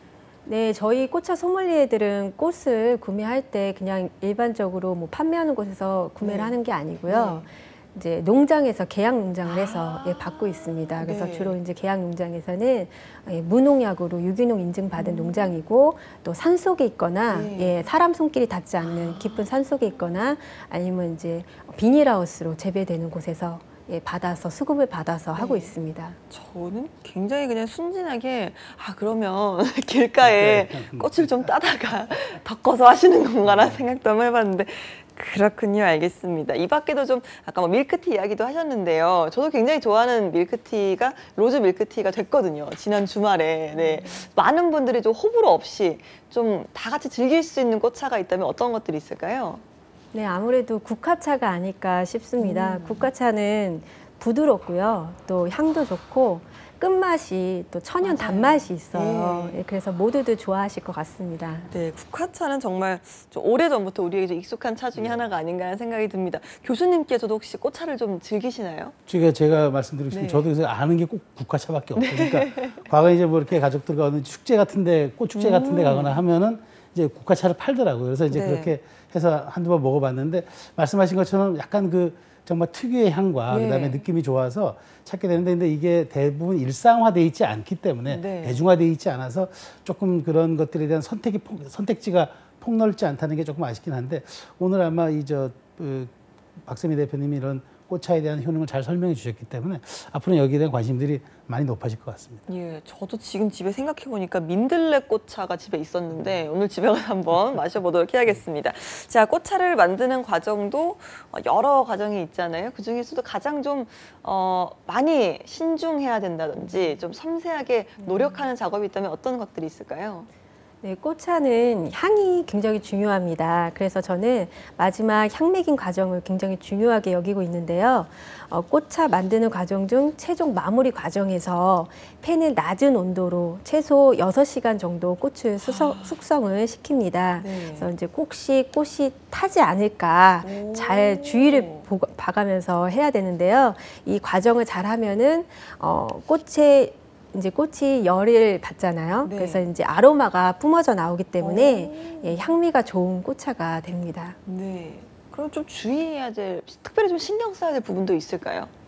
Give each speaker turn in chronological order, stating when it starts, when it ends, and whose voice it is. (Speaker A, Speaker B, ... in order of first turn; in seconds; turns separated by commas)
Speaker A: 0.5-26.2, Speaker B: 6.2-7.5, Speaker B: 9.4-11.6, Speaker B: 15.0-15.5, Speaker B: 17.3-17.9, Speaker B: 18.8-19.4, Speaker B: 25.3-25.7, Speaker B: 26.3-49.6, Speaker C: 30.2-31.5, Speaker C: 33.4-33.8, Speaker A: 43.7-44.3, Speaker A: 50.1-61.7, Speaker B: 52.4-53.1, Speaker B: 58.0-59.6, Speaker B: 61.7-69.0, Speaker C: 64.9-65.3, Speaker C: 69.1-102.4, Speaker B: 70.1-70.5, Speaker B: 72.0-72.9, Speaker B: 75.3-76.2, Speaker B: 78.3-78.7, Speaker B: 83.5-84.0, Speaker B: 88.1-88.6, Speaker B: 102.5-120.3, Speaker A: 118.0-118.4, Speaker A: 120.8-154.3, Speaker B: 135.6-136.2, Speaker B: 137.4-137.9, Speaker B: 140.4-141.9, Speaker B: 149.2-149.7, Speaker B: 151.4-152.5, Speaker B: 154.4-158.7